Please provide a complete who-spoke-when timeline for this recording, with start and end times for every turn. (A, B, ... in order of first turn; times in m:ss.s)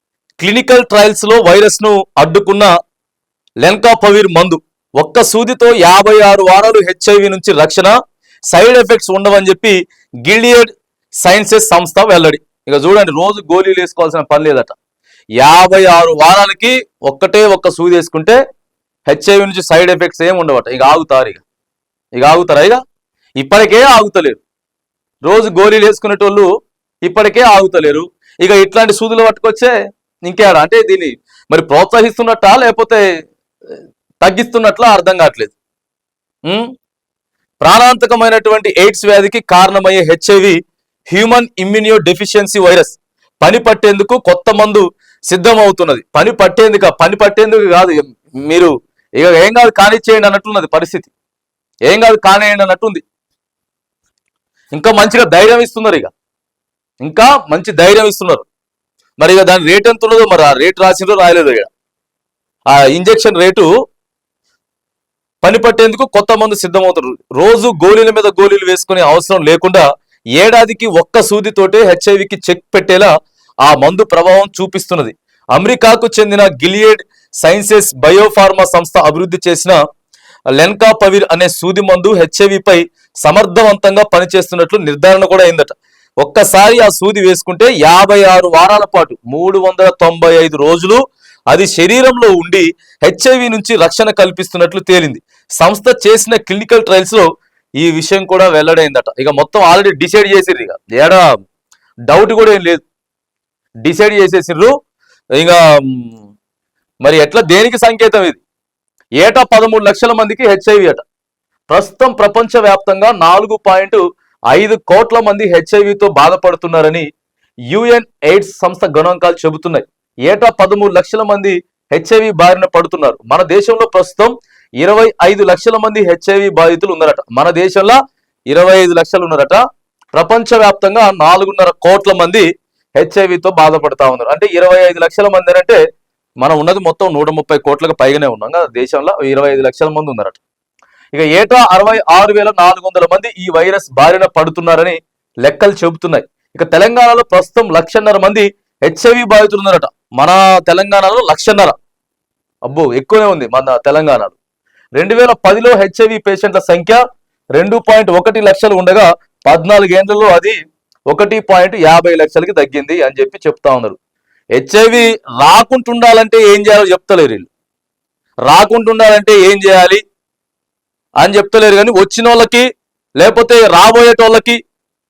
0:00.4-0:02.7 A
0:03.6-0:07.9 A
0:08.5-0:10.7 A
0:11.2-0:14.7 A
0:15.4-0:18.4 A
0:19.1-0:21.4 A
0:22.2-0:22.8 A
0:23.4-0:24.4 A
0:25.2-0:26.5 A
0:27.0-0:29.7 A
0:30.2-0:33.0 A
0:34.2-0:35.5 A
0:37.6-0:40.6 A
0:41.1-0:51.1 A
0:51.9-0:53.0 A
0:54.7-0:56.1 A
0:57.0-0:58.4 A
0:59.2-1:01.7 A
1:02.7-1:03.7 A
1:05.4-1:09.8 A
1:10.4-1:13.1 A
1:13.6-1:19.8 A
1:20.6-1:31.0 A
1:31.5-1:37.2 A
1:37.8-1:41.2 A
1:42.1-1:42.8 A
1:43.8-1:44.7 A
1:45.4-1:46.0 A
1:47.0-1:48.4 A
1:49.2-1:51.0 A
1:51.7-1:54.0 A
1:54.5-1:57.0 A
1:57.7-2:08.0 A
2:08.5-2:09.6 A
2:10.1-2:12.4 A
2:13.0-2:15.8 A
2:16.4-2:20.4 A
2:21.1-2:31.7 A
2:32.7-2:34.4 A
2:35.0-2:37.0 A
2:37.5-2:40.6 A
2:41.1-2:44.0 A
2:44.6-2:47.5 A
2:48.5-2:50.0 A
2:51.2-2:52.6 A
2:53.2-2:54.6 A